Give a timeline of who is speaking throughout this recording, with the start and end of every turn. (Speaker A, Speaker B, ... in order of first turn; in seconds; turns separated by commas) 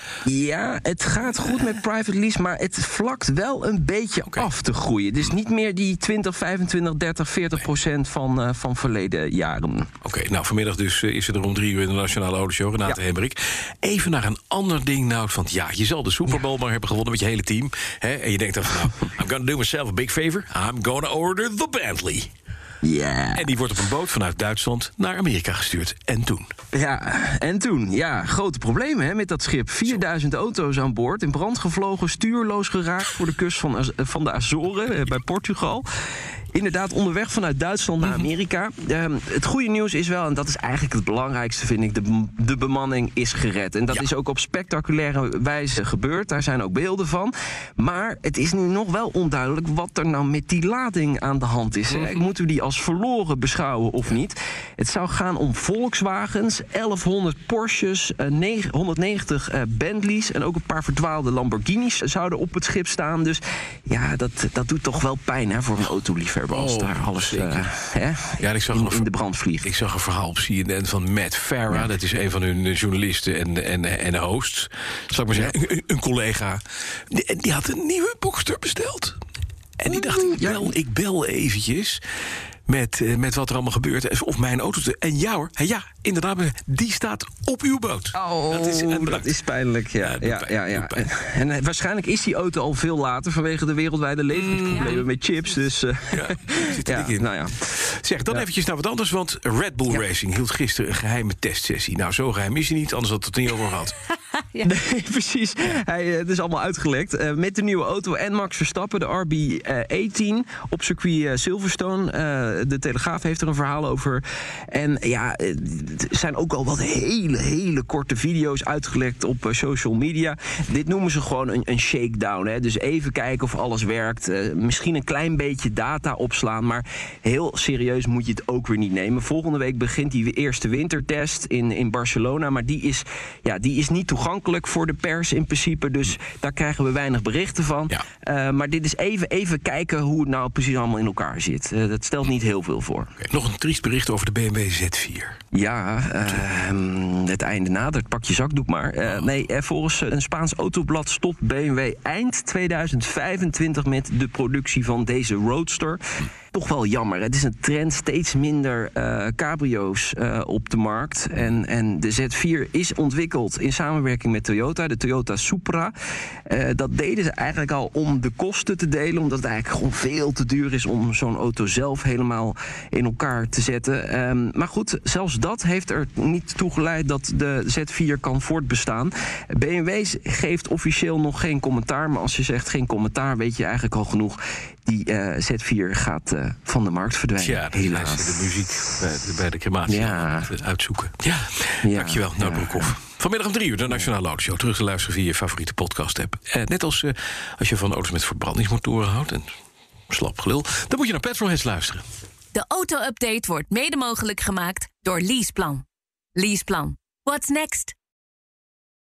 Speaker A: 0.2-9.9, Speaker B: 10.0-22.3, Speaker A: 22.8-23.5, Speaker B: 23.3-26.5, Speaker A: 26.7-35.9, Speaker A: 36.5-69.7, Speaker B: 51.9-52.2, Speaker B: 66.5-67.7, Speaker B: 68.4-69.1, Speaker B: 69.6-79.2, Speaker B: 79.8-82.0, Speaker A: 79.9-80.7, Speaker B: 82.7-89.3, Speaker A: 88.1-97.6, Speaker B: 90.0-91.0, Speaker B: 94.3-95.0, Speaker B: 96.1-104.0, Speaker A: 104.6-143.1, Speaker B: 143.2-145.4, Speaker A: 145.5-165.9, Speaker A: 166.5-188.5, Speaker B: 187.4-199.5, Speaker A: 189.9-190.5, Speaker A: 191.8-192.9, Speaker B: 200.1-202.0, Speaker C: 202.5-205.8, Speaker C: 206.4-207.9